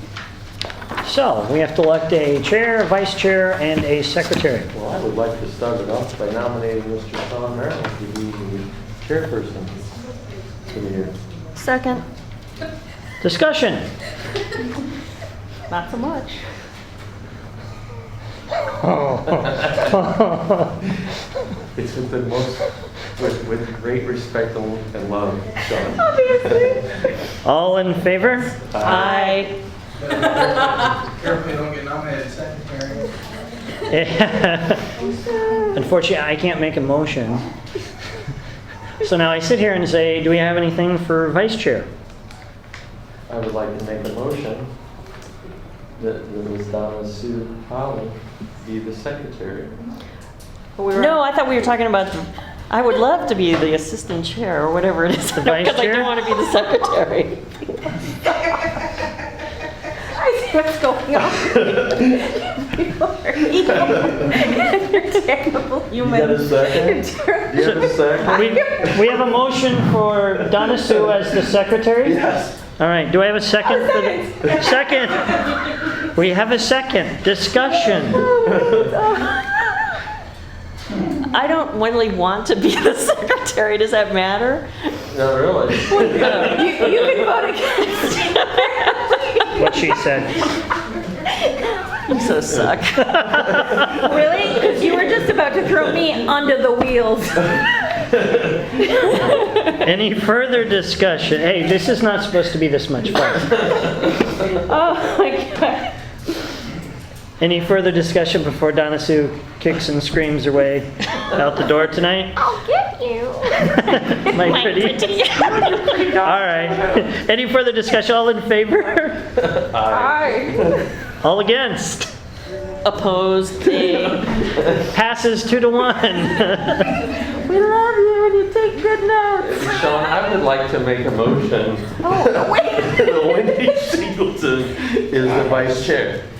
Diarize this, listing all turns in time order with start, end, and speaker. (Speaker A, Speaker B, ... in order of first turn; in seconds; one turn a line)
Speaker A: 1.0-4.7
Speaker B: 4.7-9.8
Speaker B: 10.7-11.1
Speaker C: 11.6-12.0
Speaker A: 13.2-13.9
Speaker D: 15.7-16.4
Speaker A: 18.8-20.8
Speaker B: 21.7-22.6
Speaker B: 23.1-26.7
Speaker D: 26.0-26.8
Speaker A: 27.4-28.5
Speaker B: 28.7-29.3
Speaker C: 28.8-29.6
Speaker E: 30.0-33.1
Speaker A: 33.9-34.8
Speaker D: 35.0-35.7
Speaker A: 35.7-37.4
Speaker A: 39.0-41.9
Speaker B: 43.3-44.7
Speaker B: 46.0-49.7
Speaker D: 50.8-51.2
Speaker C: 50.9-57.4
Speaker A: 55.4-56.2
Speaker D: 58.4-58.7
Speaker D: 60.1-69.1
Speaker B: 61.4-61.7
Speaker B: 66.0-69.1
Speaker A: 67.6-72.2
Speaker B: 70.5-71.0
Speaker B: 72.0-72.6
Speaker A: 72.8-78.2
Speaker D: 73.6-75.0
Speaker D: 77.6-79.5
Speaker B: 78.4-78.9
Speaker C: 81.3-84.9
Speaker B: 85.1-86.7
Speaker C: 85.9-87.3
Speaker D: 85.9-89.9
Speaker C: 88.0-89.2
Speaker A: 89.5-90.5
Speaker C: 92.0-93.3
Speaker A: 93.0-94.0
Speaker D: 93.9-97.6
Speaker D: 99.0-99.3
Speaker A: 99.7-103.6
Speaker D: 104.6-105.9
Speaker A: 107.4-112.4
Speaker D: 112.4-114.2
Speaker A: 114.0-115.3
Speaker C: 114.3-116.1
Speaker D: 115.6-116.8
Speaker A: 116.1-119.2
Speaker B: 119.6-120.8
Speaker D: 119.9-120.9
Speaker A: 121.2-122.1
Speaker C: 122.8-124.4
Speaker B: 123.7-124.8
Speaker A: 124.9-127.1
Speaker D: 127.4-129.7
Speaker B: 129.4-136.2
Speaker D: 132.0-133.2